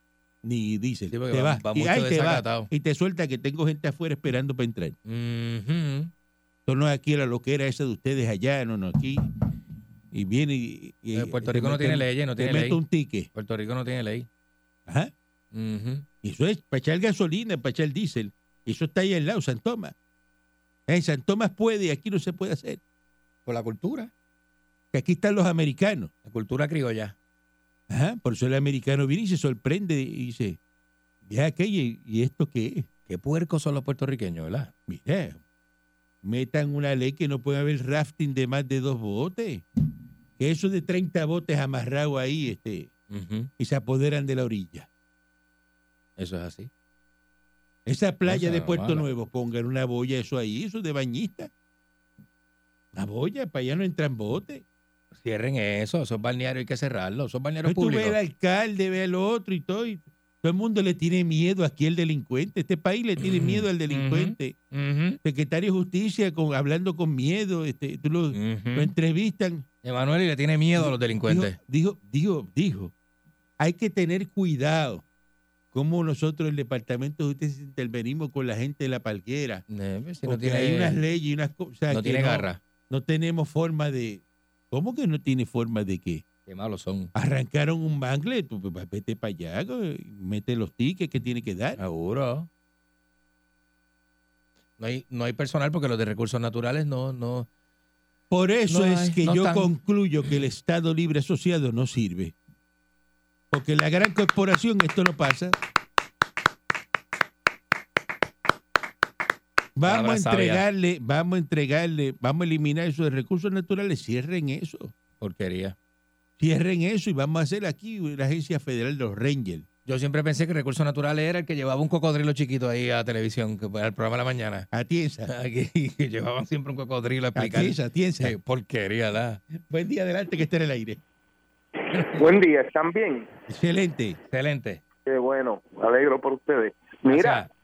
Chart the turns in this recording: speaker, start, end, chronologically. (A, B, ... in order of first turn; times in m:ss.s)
0:00.4-0:05.0 A
0:01.1-0:02.7 B
0:05.0-0:06.1 B
0:06.6-0:09.2 A
0:10.1-0:13.3 A
0:11.2-0:12.8 B
0:13.3-0:14.3 B
0:14.9-0:15.1 A
0:15.5-0:16.0 B
0:16.2-0:19.9 A
0:20.9-0:22.8 A
0:23.4-0:24.1 B
0:24.9-0:26.1 A
0:26.2-0:27.1 B
0:27.9-0:30.6 A
0:31.2-0:32.9 A
0:33.1-0:34.7 B
0:34.9-0:35.4 A
0:36.2-0:39.6 A
0:40.4-0:42.9 A
0:43.1-0:43.5 B
0:43.6-0:44.9 A
0:46.2-0:46.7 B
0:47.8-0:51.5 A
0:48.2-0:49.0 B
0:52.9-0:54.6 A
0:55.1-0:58.2 B
0:57.6-1:04.6 A
1:03.2-1:05.2 B
1:05.2-1:09.6 A
1:08.3-1:08.9 B
1:09.8-1:11.6 B
1:10.8-1:12.9 A
1:13.6-1:15.0 A
1:15.7-1:19.6 A
1:19.7-1:21.0 B
1:20.2-1:26.2 A
1:21.9-1:22.6 B
1:26.4-1:27.1 B
1:27.1-1:31.8 A
1:31.8-1:32.5 B
1:34.8-1:37.5 B
1:38.3-1:42.3 A
1:38.7-1:39.7 B
1:43.5-1:45.5 A
1:49.8-1:54.9 A
1:49.8-1:50.6 B
1:55.2-1:55.7 B
1:56.4-1:59.7 A
1:59.8-2:04.7 B
2:04.7-2:05.3 A
2:05.3-2:09.4 B
2:07.4-2:08.3 A
2:09.5-2:11.0 A
2:12.2-2:13.2 C
2:13.5-2:14.2 A
2:14.3-2:14.8 B
2:15.1-2:17.4 C
2:17.0-2:17.5 B